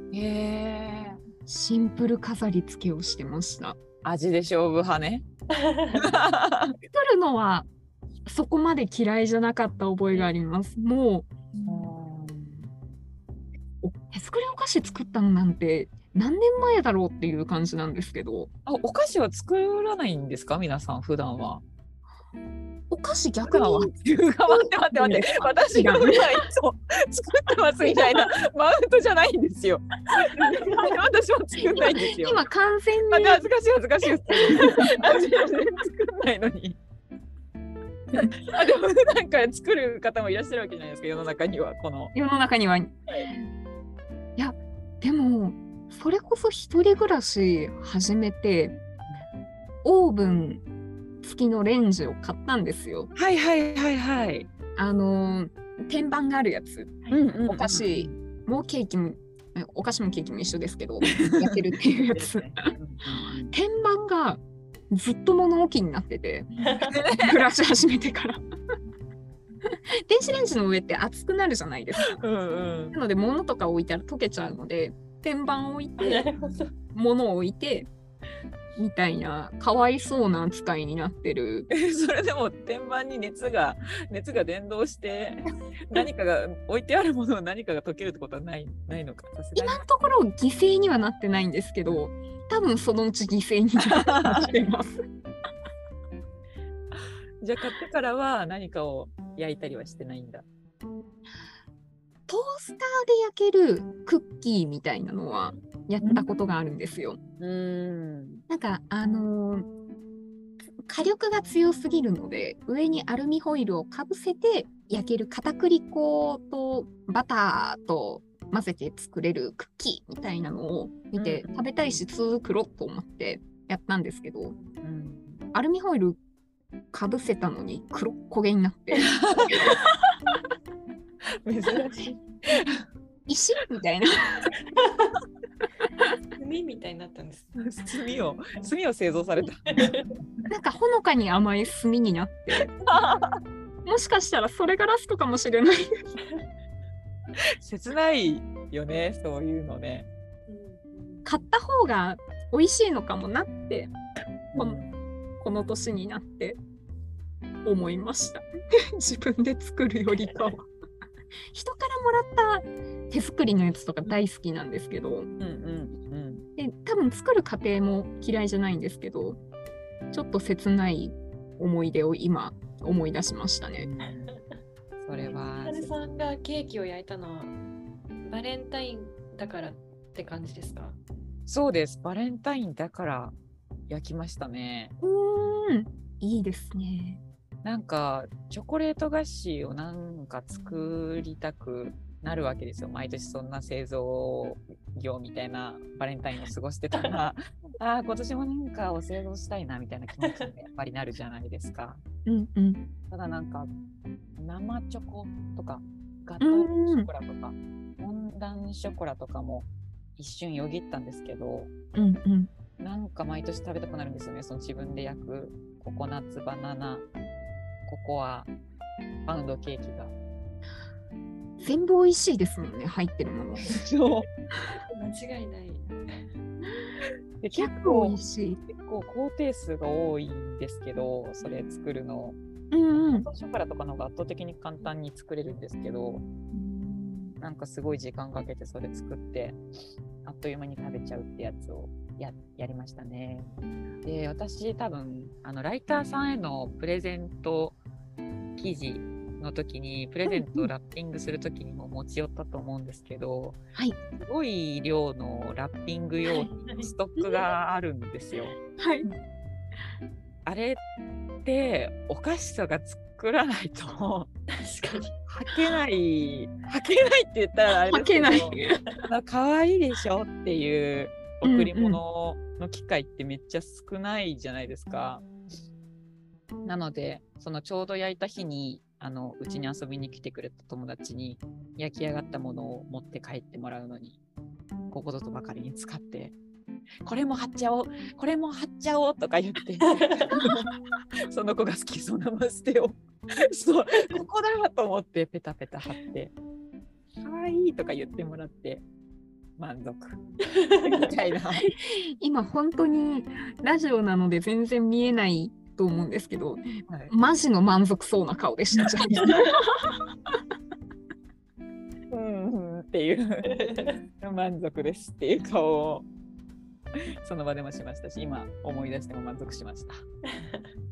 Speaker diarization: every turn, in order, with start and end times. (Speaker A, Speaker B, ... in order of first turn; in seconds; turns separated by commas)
Speaker A: 0.1-1.2, Speaker B: 1.5-3.8, Speaker A: 4.0-5.2, Speaker C: 5.5-6.1, Speaker A: 6.0-6.8, Speaker B: 6.9-7.7, Speaker B: 8.2-11.9, Speaker A: 11.7-12.7, Speaker B: 13.8-18.5, Speaker A: 18.7-21.6, Speaker B: 22.9-23.9, Speaker A: 23.4-32.4, Speaker B: 24.5-26.4, Speaker B: 31.6-33.4, Speaker A: 33.1-36.8, Speaker B: 34.3-35.2, Speaker A: 38.1-42.1, Speaker B: 42.1-43.5, Speaker B: 44.4-48.8, Speaker B: 49.8-50.6, Speaker B: 51.2-53.1, Speaker A: 53.1-54.5, Speaker B: 54.8-62.7, Speaker A: 57.1-58.1, Speaker A: 61.2-63.5, Speaker B: 63.5-66.5, Speaker C: 66.6-67.0, Speaker A: 66.8-67.4, Speaker B: 67.2-68.4, Speaker B: 70.1-72.2, Speaker A: 72.0-73.0, Speaker B: 72.9-76.3, Speaker C: 76.0-76.7, Speaker B: 76.9-77.9, Speaker B: 78.8-81.7, Speaker A: 81.7-89.8, Speaker B: 89.6-95.0, Speaker A: 94.0-94.6, Speaker A: 96.9-100.5, Speaker B: 102.3-107.2, Speaker A: 106.0-106.2, Speaker A: 107.4-108.4, Speaker B: 108.5-109.7, Speaker B: 110.9-124.6, Speaker A: 121.2-122.0, Speaker A: 124.8-125.5, Speaker B: 125.5-126.2, Speaker B: 126.9-129.9, Speaker A: 128.9-129.8, Speaker A: 131.4-132.8, Speaker B: 133.3-134.5, Speaker C: 134.7-135.1, Speaker C: 136.4-137.6, Speaker A: 137.6-139.8, Speaker C: 139.7-140.1, Speaker B: 140.5-142.7, Speaker A: 142.9-143.4, Speaker B: 143.8-145.9, Speaker A: 147.6-150.1, Speaker C: 150.5-151.5, Speaker B: 151.2-153.9, Speaker A: 154.5-154.9, Speaker B: 154.6-154.8, Speaker B: 155.4-156.6, Speaker B: 157.6-158.4, Speaker B: 159.0-160.7, Speaker B: 161.5-165.3, Speaker A: 165.4-166.4, Speaker B: 166.6-169.4, Speaker B: 170.1-173.9, Speaker A: 173.8-174.3, Speaker A: 175.0-176.1, Speaker C: 175.2-177.6, Speaker C: 178.2-181.0, Speaker A: 181.5-183.3, Speaker A: 183.9-184.9, Speaker B: 185.0-187.2, Speaker A: 187.6-202.0, Speaker C: 196.9-197.2, Speaker B: 202.3-202.8, Speaker A: 203.1-203.7, Speaker A: 204.4-211.7, Speaker B: 206.4-207.1, Speaker B: 211.9-212.5, Speaker A: 212.8-217.1, Speaker A: 217.9-218.5, Speaker A: 219.3-220.1, Speaker B: 221.6-223.7, Speaker A: 223.7-224.3, Speaker C: 224.7-225.9, Speaker A: 227.4-228.2, Speaker B: 227.5-228.6, Speaker A: 228.7-232.4, Speaker B: 232.7-233.3, Speaker A: 232.9-236.2, Speaker B: 236.6-237.3, Speaker A: 237.4-239.6, Speaker A: 240.2-243.5, Speaker A: 244.1-247.8, Speaker A: 248.6-253.6, Speaker B: 250.3-250.7, Speaker A: 254.2-258.6, Speaker C: 256.3-256.9, Speaker B: 257.2-257.5, Speaker B: 258.8-259.1, Speaker A: 260.5-260.8, Speaker A: 261.4-264.3, Speaker C: 264.6-265.1, Speaker A: 265.3-275.2, Speaker B: 267.9-268.8, Speaker B: 271.4-272.0, Speaker A: 276.6-284.2, Speaker A: 284.9-286.4, Speaker A: 287.0-290.8, Speaker C: 290.0-290.4, Speaker A: 291.3-296.3, Speaker A: 297.2-298.8, Speaker A: 299.6-300.2, Speaker C: 300.6-300.9, Speaker A: 300.8-301.7, Speaker B: 301.6-309.9, Speaker C: 309.2-309.5, Speaker A: 312.1-313.5, Speaker C: 313.5-314.0, Speaker A: 314.2-316.1, Speaker A: 317.2-320.0, Speaker C: 320.4-320.7